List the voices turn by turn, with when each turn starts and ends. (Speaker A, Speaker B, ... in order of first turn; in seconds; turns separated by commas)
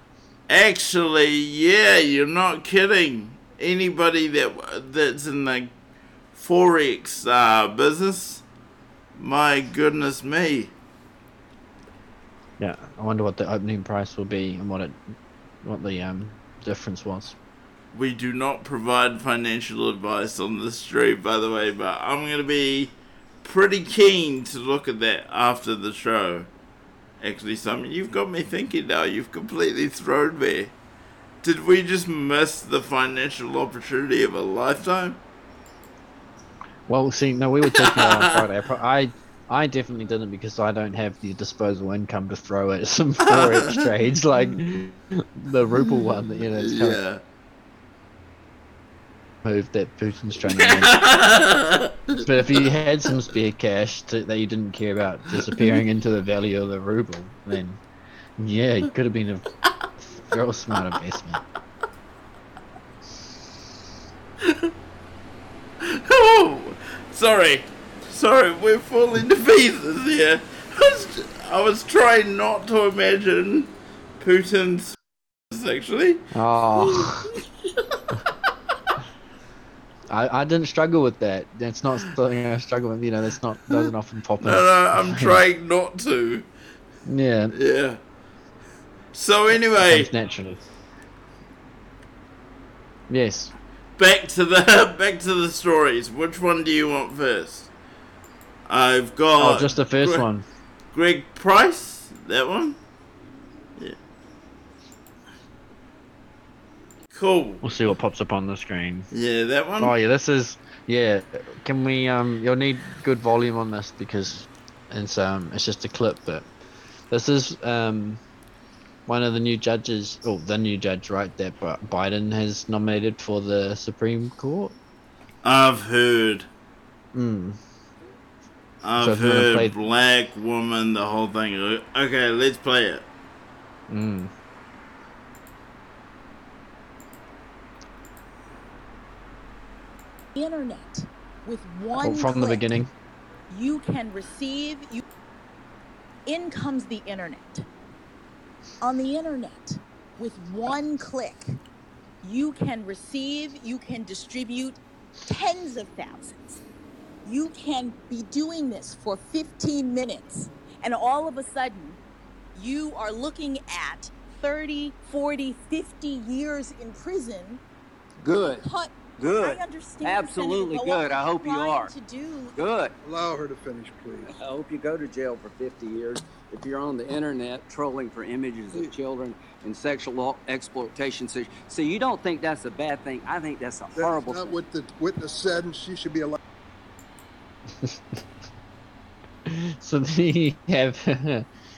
Speaker A: 0.5-5.7, Speaker A: 6.3-8.4, Speaker A: 9.2-10.7, Speaker B: 12.6-15.0, Speaker B: 15.6-17.4, Speaker A: 17.9-26.5, Speaker A: 27.2-30.7, Speaker A: 31.4-35.2, Speaker B: 36.9-47.0, Speaker A: 37.7-38.4, Speaker A: 43.2-43.9, Speaker A: 46.6-47.2, Speaker B: 49.4-51.1, Speaker A: 50.5-52.2, Speaker B: 52.2-57.8, Speaker B: 58.4-59.5, Speaker B: 60.0-61.4, Speaker A: 64.4-64.7, Speaker A: 65.8-75.0, Speaker A: 75.5-76.3, Speaker B: 76.3-77.3, Speaker A: 76.8-78.2, Speaker B: 80.1-85.4, Speaker A: 84.4-86.5, Speaker B: 87.1-87.5, Speaker A: 87.5-88.0, Speaker A: 89.1-90.1, Speaker B: 89.8-90.6, Speaker B: 93.1-93.5, Speaker A: 94.0-97.7, Speaker A: 98.7-100.3, Speaker B: 99.4-100.5, Speaker A: 100.9-102.8, Speaker A: 107.1-107.7, Speaker B: 107.6-109.1, Speaker A: 109.1-109.9, Speaker B: 109.8-116.5, Speaker B: 117.1-118.2, Speaker B: 119.1-124.8, Speaker A: 125.4-126.5, Speaker B: 127.1-127.6, Speaker A: 128.8-133.1, Speaker B: 129.0-129.7, Speaker B: 133.9-134.3, Speaker C: 140.3-142.6, Speaker B: 142.0-142.9, Speaker C: 143.5-145.0, Speaker C: 146.3-147.6, Speaker C: 148.8-151.4, Speaker C: 152.2-156.6, Speaker C: 157.2-162.0, Speaker C: 162.6-167.6, Speaker D: 168.2-168.6, Speaker C: 168.6-172.6, Speaker D: 169.2-171.9, Speaker D: 172.6-172.9, Speaker E: 173.0-174.3, Speaker D: 174.3-184.6, Speaker E: 183.9-186.4, Speaker B: 189.5-191.5